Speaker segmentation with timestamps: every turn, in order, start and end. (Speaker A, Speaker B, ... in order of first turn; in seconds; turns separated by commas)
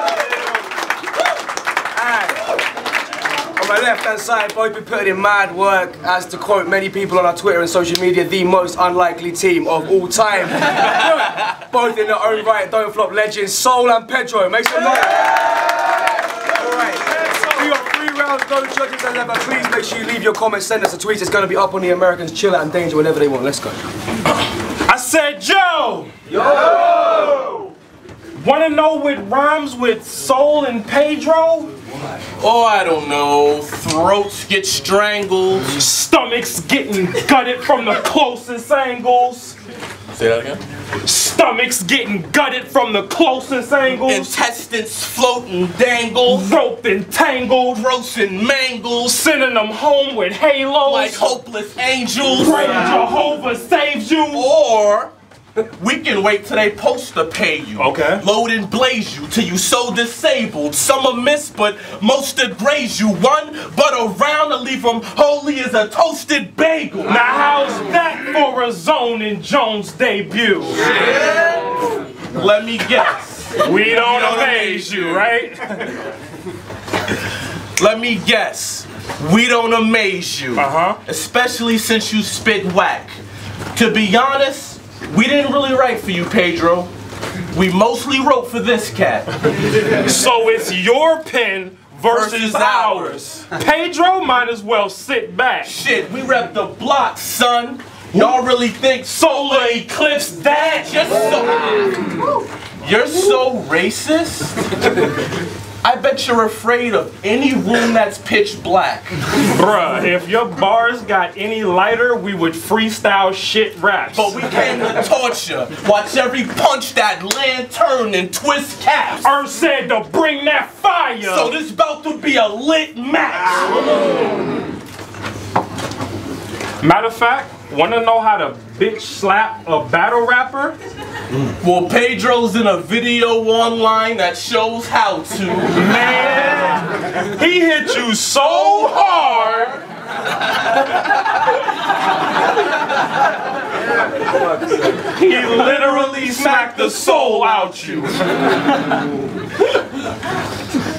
Speaker A: 1.9-2.5, Speaker A: 3.6-15.3, Speaker A: 16.6-23.8, Speaker B: 24.9-26.1, Speaker B: 28.4-31.7, Speaker C: 32.4-35.8, Speaker B: 35.8-39.6, Speaker C: 40.1-40.6, Speaker B: 41.0-44.3, Speaker C: 43.9-46.5, Speaker B: 46.3-47.8, Speaker C: 47.6-49.2, Speaker B: 49.0-51.4, Speaker C: 50.9-52.8, Speaker B: 52.4-54.5, Speaker C: 54.3-67.2, Speaker B: 57.8-58.2, Speaker B: 67.1-70.9, Speaker C: 70.9-75.3, Speaker B: 73.6-75.9, Speaker C: 77.8-83.2, Speaker B: 80.6-81.0, Speaker C: 83.7-86.9, Speaker C: 87.5-89.3, Speaker B: 90.0-95.8, Speaker C: 92.1-93.3, Speaker C: 95.7-102.1, Speaker B: 98.1-98.4, Speaker B: 99.0-101.1, Speaker C: 102.8-105.0, Speaker C: 105.8-109.2, Speaker B: 109.5-114.3, Speaker C: 114.1-119.3, Speaker B: 119.2-121.5, Speaker C: 121.2-124.0, Speaker B: 126.8-130.8, Speaker C: 131.6-135.8, Speaker B: 135.8-139.8, Speaker C: 138.4-139.2, Speaker C: 145.2-147.9, Speaker B: 145.2-148.2